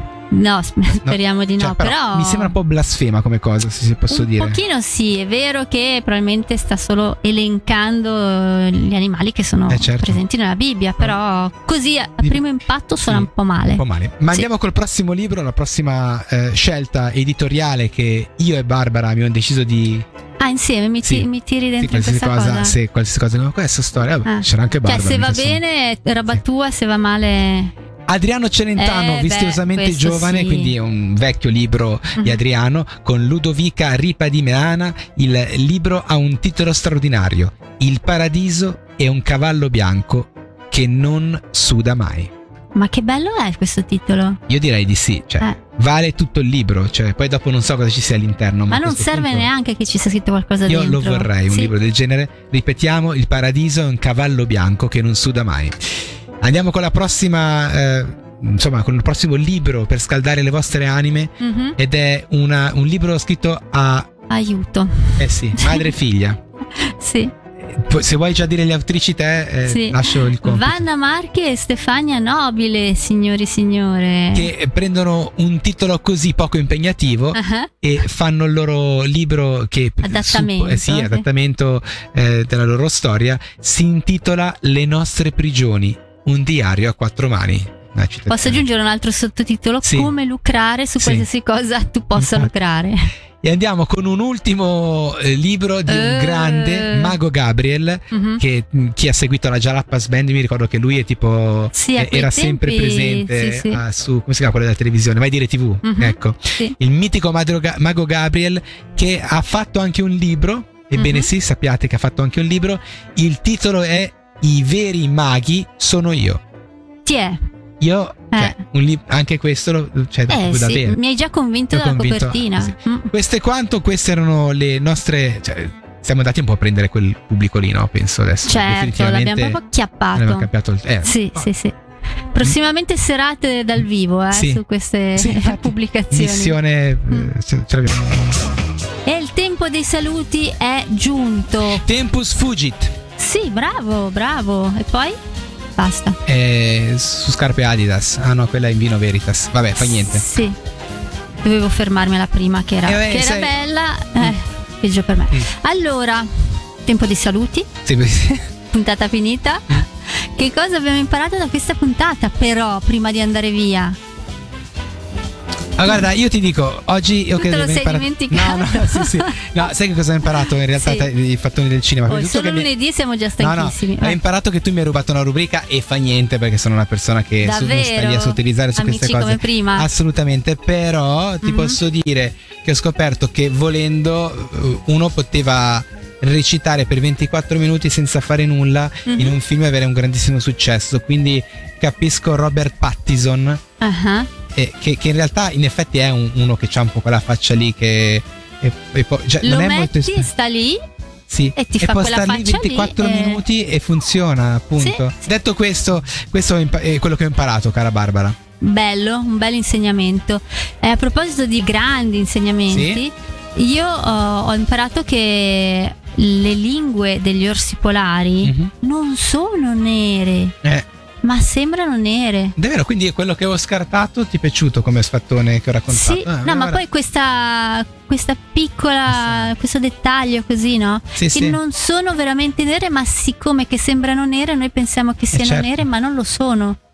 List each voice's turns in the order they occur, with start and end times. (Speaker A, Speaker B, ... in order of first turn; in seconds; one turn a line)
Speaker A: 0.3-2.6
Speaker B: 1.0-4.6
Speaker A: 4.1-14.5
Speaker B: 9.7-10.2
Speaker B: 13.0-20.1
Speaker A: 20.4-22.8
Speaker B: 21.0-25.6
Speaker A: 24.2-27.7
Speaker B: 28.1-42.3
Speaker A: 28.8-30.7
Speaker A: 42.8-44.4
Speaker B: 44.5-49.5
Speaker A: 48.7-51.7
Speaker B: 50.7-64.1
Speaker A: 61.4-61.8
Speaker A: 64.3-65.9
Speaker B: 65.2-66.4
Speaker A: 66.8-67.3
Speaker B: 67.6-70.8
Speaker A: 69.7-74.5
Speaker B: 74.3-88.6
Speaker A: 77.3-77.7
Speaker A: 80.0-81.2
Speaker A: 88.3-93.1
Speaker B: 89.8-90.1
Speaker B: 91.0-91.3
Speaker B: 92.2-92.5
Speaker B: 93.4-116.4
Speaker A: 95.9-97.2
Speaker A: 98.1-98.4
Speaker A: 101.7-103.8
Speaker A: 105.8-106.8
Speaker A: 111.0-111.3
Speaker A: 117.0-117.4
Speaker B: 117.8-121.0
Speaker A: 118.3-118.6
Speaker A: 120.3-123.1
Speaker B: 121.7-129.6
Speaker A: 128.4-130.5
Speaker B: 130.1-131.5
Speaker A: 131.0-131.8
Speaker A: 132.3-136.6
Speaker B: 134.3-134.6
Speaker B: 135.2-138.3
Speaker A: 139.1-141.9
Speaker B: 141.7-142.9
Speaker A: 143.2-145.2
Speaker A: 145.8-146.2
Speaker B: 146.2-150.2
Speaker A: 149.8-150.6
Speaker A: 151.4-156.3
Speaker B: 152.8-153.6
Speaker A: 156.8-157.7
Speaker B: 157.8-158.5
Speaker A: 158.7-164.0
Speaker B: 165.8-172.7
Speaker A: 167.4-169.5
Speaker A: 170.2-171.1
Speaker A: 172.1-174.2
Speaker B: 173.4-193.6
Speaker A: 177.4-179.9
Speaker A: 181.4-181.8
Speaker A: 189.1-189.4
Speaker A: 193.8-194.3
Speaker B: 194.5-200.3
Speaker A: 199.4-200.8
Speaker B: 201.3-208.4
Speaker A: 201.6-203.4
Speaker A: 204.8-205.1
Speaker A: 208.6-220.5
Speaker B: 212.7-213.0
Speaker B: 218.4-218.7
Speaker A: 221.2-222.5
Speaker B: 222.6-226.8
Speaker A: 225.9-236.8
Speaker B: 229.1-229.5
Speaker B: 231.2-231.6
Speaker B: 235.3-235.8